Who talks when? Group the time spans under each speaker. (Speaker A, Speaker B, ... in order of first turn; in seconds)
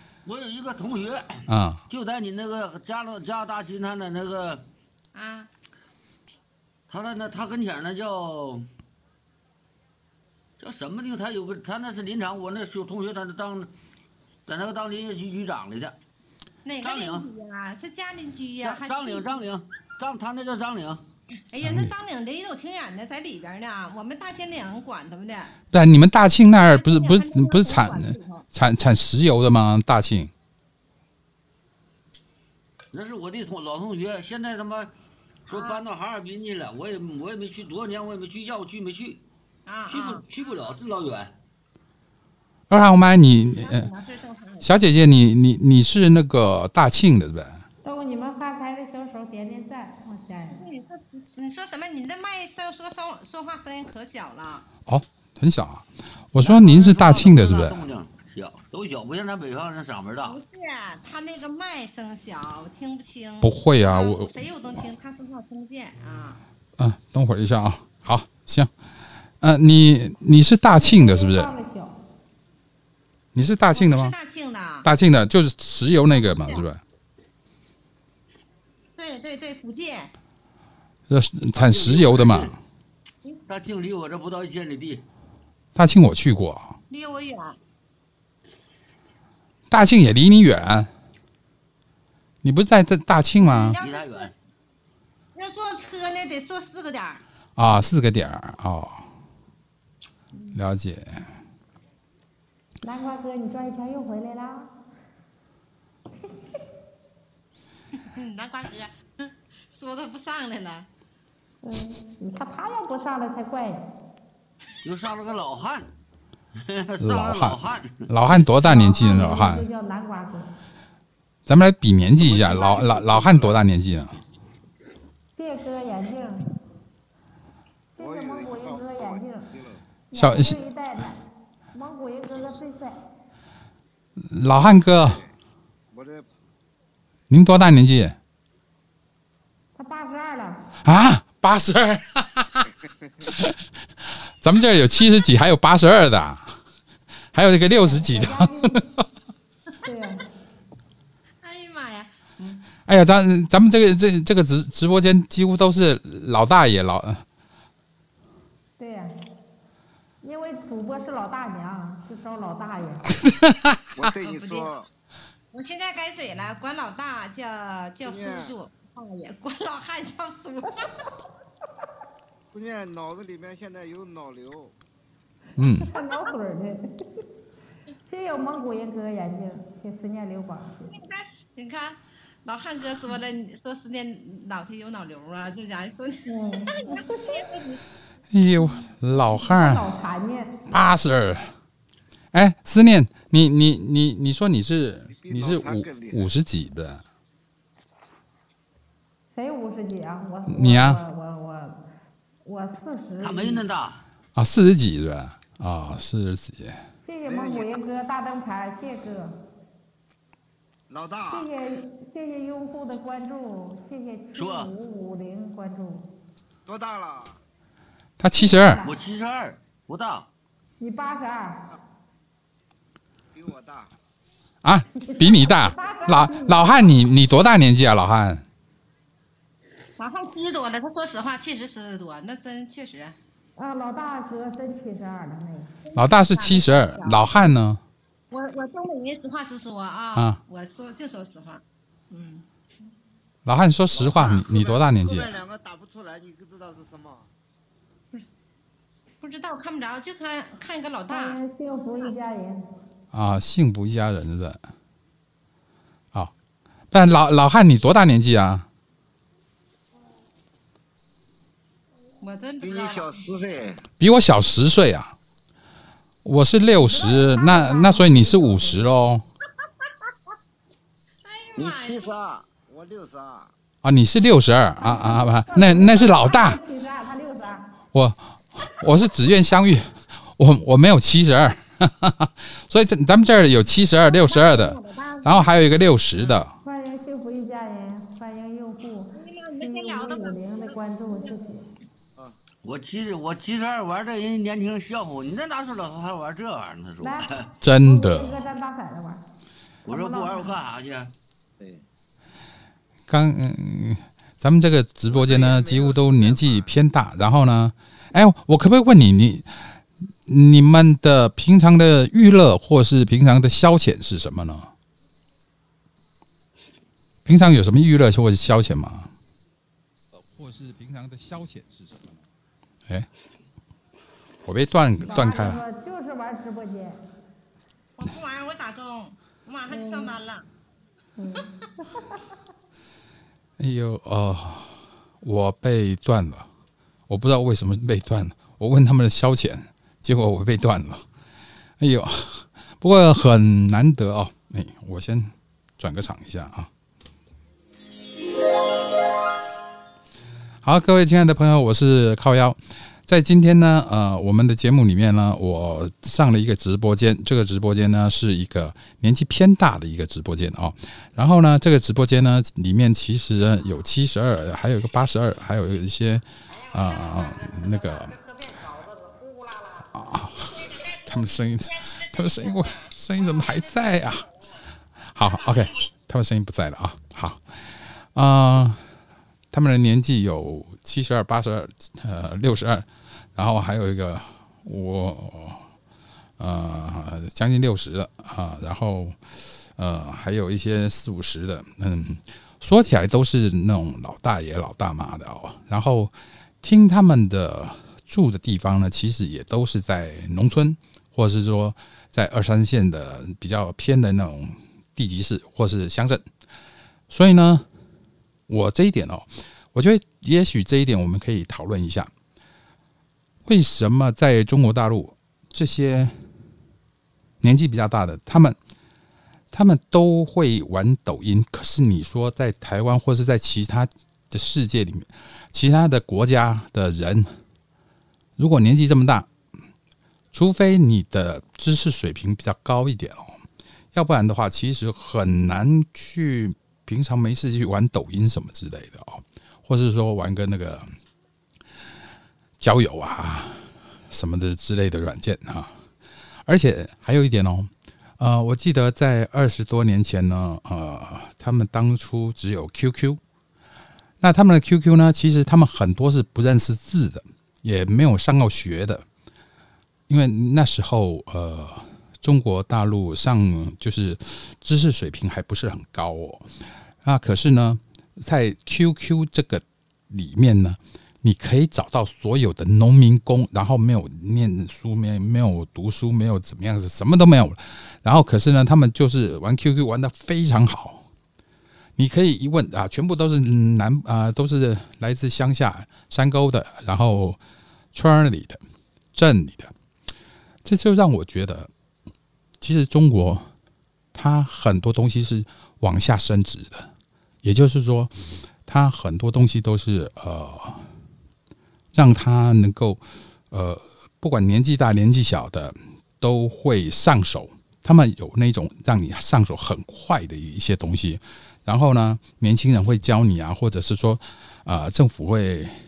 Speaker A: 0.2-4.6, 6.9-8.7, 10.6-13.7, 14.5-16.0, 16.8-17.3, 18.6-21.0, 32.9-34.9, 35.5-39.2, 39.9-41.3, 56.4-60.4, 81.5-82.5, 83.5-85.0, 93.8-94.3, 114.8-115.9, 116.6-118.5, 203.2-204.0, 214.3-214.7, 218.8-220.3, 292.6-297.5, 299.9-301.1
Speaker B: 1.5-1.8, 21.6-21.9, 25.7-30.3, 42.7-43.9, 44.6-47.6, 54.9-57.9, 63.4-64.3, 66.8-68.7, 69.4-71.5, 73.3-74.1, 74.8-76.8, 81.1-82.6, 85.8-86.8, 89.7-90.9, 92.4-93.8, 97.6-99.1, 100.5-101.3, 117.0-119.7, 121.5-124.2, 130.2-130.6, 134.2-135.2, 137.3-138.2, 140.8-142.7, 143.2-146.6, 147.3-148.9, 152.9-157.2, 163.2-163.7, 175.6-175.9, 188.3-189.9, 190.7-191.5, 192.3-197.0, 200.5-201.0, 204.4-206.8, 218.2-218.8, 224.6-228.4, 235.9-237.8, 243.4-245.4, 253.1-254.6, 256.9-258.7, 264.0-265.1, 266.2-269.2, 273.8-276.6, 277.9-286.5, 297.6-298.4, 303.1-314.7, 317.2-319.1, 320.2-322.2, 324.4-325.6, 333.6-336.5, 337.1-341.0, 341.8-346.7, 350.6-368.3, 369.7-374.4, 375.0-378.8, 379.5-385.7, 386.4-406.3, 407.1-407.7, 408.5-412.1, 413.5-416.1, 417.4-418.6, 419.5-427.3, 428.4-429.3, 430.3-433.4, 433.9-440.9, 442.6-445.7, 446.5-453.2, 454.2-459.0, 460.1-466.5, 467.0-481.0, 482.0-487.4, 487.9-488.6, 489.1-489.7, 490.6-491.7, 492.6-493.5, 494.1-496.9, 497.4-498.1, 498.7-500.9, 501.9-515.7
Speaker C: 5.1-5.5, 16.6-19.4, 21.5-25.6, 26.7-28.4, 35.5-35.8, 39.7-40.2, 43.6-44.7, 50.5-54.7, 60.2-66.4, 73.7-74.9, 76.1-76.7, 79.0-80.1, 86.9-87.6, 93.4-94.3, 95.3-97.2, 108.0-110.9, 151.4-152.6, 164.2-164.7, 165.5-170.9, 175.9-176.3, 180.9-187.8, 230.0-233.2, 235.8-237.3, 238.3-242.4, 249.2-251.4, 262.2-263.2, 271.2-272.1, 284.0-285.5, 289.1-291.4, 328.0-330.5
Speaker D: 47.8-50.6, 70.7-72.0, 102.8-104.7, 111.6-113.8, 118.6-120.5, 125.4-126.5, 128.0-129.5, 130.1-131.2, 131.7-133.0, 139.8-140.8, 147.7-148.9, 149.8-150.2, 158.8-159.2, 160.2-163.2, 175.8-177.2, 178.1-180.9, 186.3-187.4, 189.3-190.6, 199.3-201.8, 202.4-203.6, 207.0-209.4, 211.3-216.1, 218.3-219.0, 220.8-221.7, 225.0-227.0, 233.6-235.7, 251.1-252.7, 266.6-268.9, 274.8-277.8, 286.6-291.7, 297.0-299.2, 299.9-300.6, 325.0-327.0, 329.7-330.2, 331.2-332.2
Speaker E: 122.2-123.6, 128.0-129.8, 134.8-135.3, 135.9-136.3, 163.9-164.9, 168.0-168.5, 172.5-174.7, 195.1-196.3, 207.2-207.7, 210.9-211.5, 216.7-217.4, 223.3-223.9, 243.9-247.3, 262.6-263.8, 271.6-273.5, 305.1-306.7